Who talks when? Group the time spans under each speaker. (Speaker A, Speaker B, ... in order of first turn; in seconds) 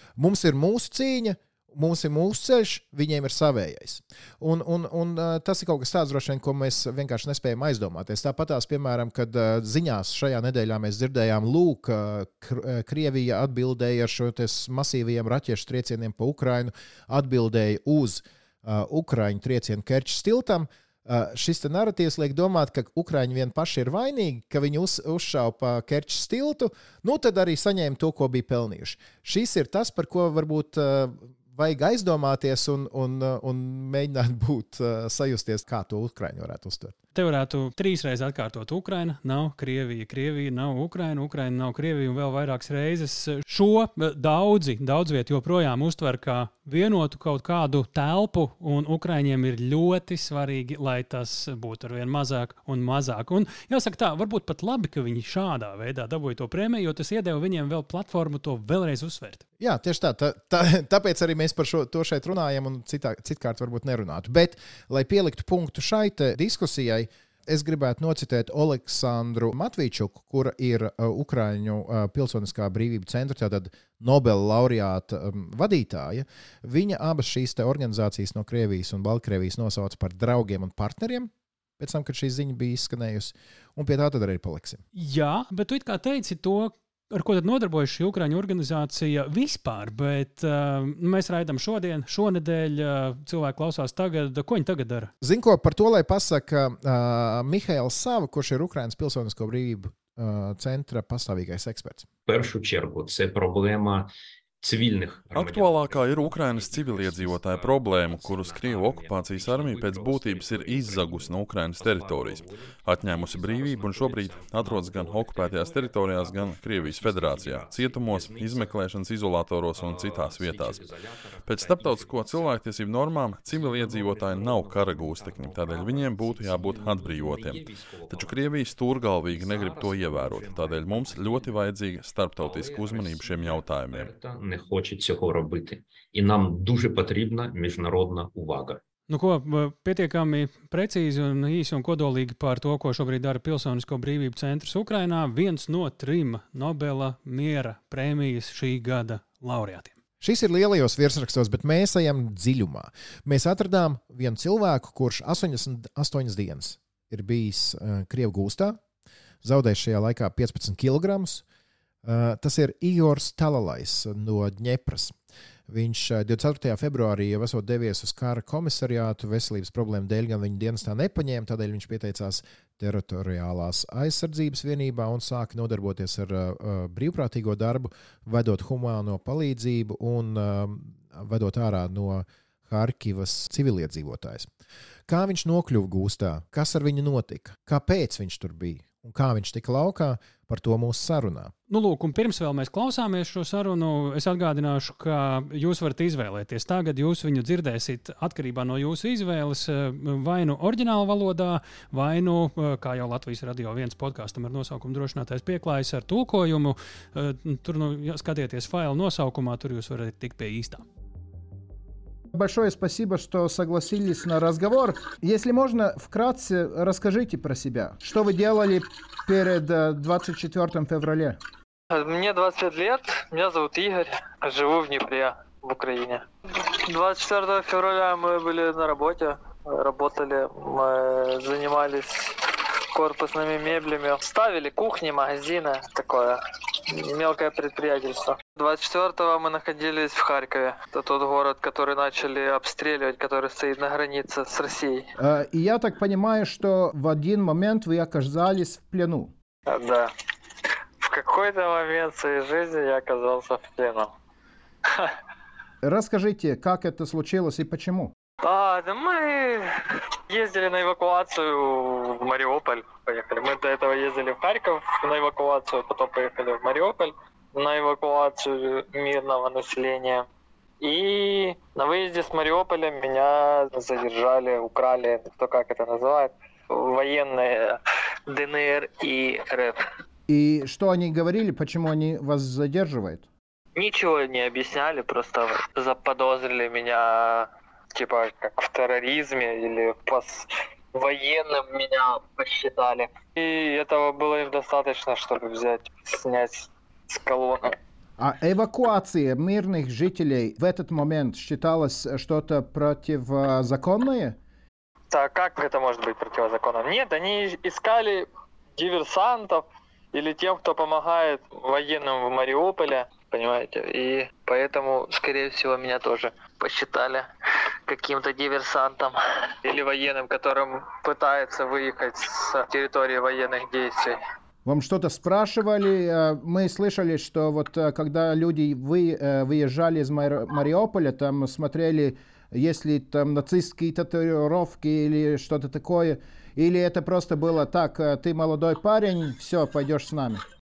Speaker A: 0.2-37.0, 59.6-84.8, 95.2-102.1, 150.2-158.8, 159.4-161.4, 162.0-165.2, 165.7-184.5, 185.1-191.5
Speaker B: 37.1-59.4, 84.9-95.1, 139.1-149.9, 191.7-210.8
Speaker C: 102.2-104.1, 104.6-118.8, 119.7-122.6, 123.4-128.6, 129.2-131.6, 132.3-138.8
Speaker D: 105.3-120.8, 121.5-134.1
Speaker E: 212.3-221.4, 245.2-249.3, 255.8-258.1, 280.3-283.3, 298.2-304.4, 324.6-340.4
Speaker F: 221.9-245.1, 249.7-250.1, 251.0-254.1, 258.4-259.7, 260.3-270.3, 270.8-279.8, 283.8-297.7, 305.1-317.3, 317.9-324.2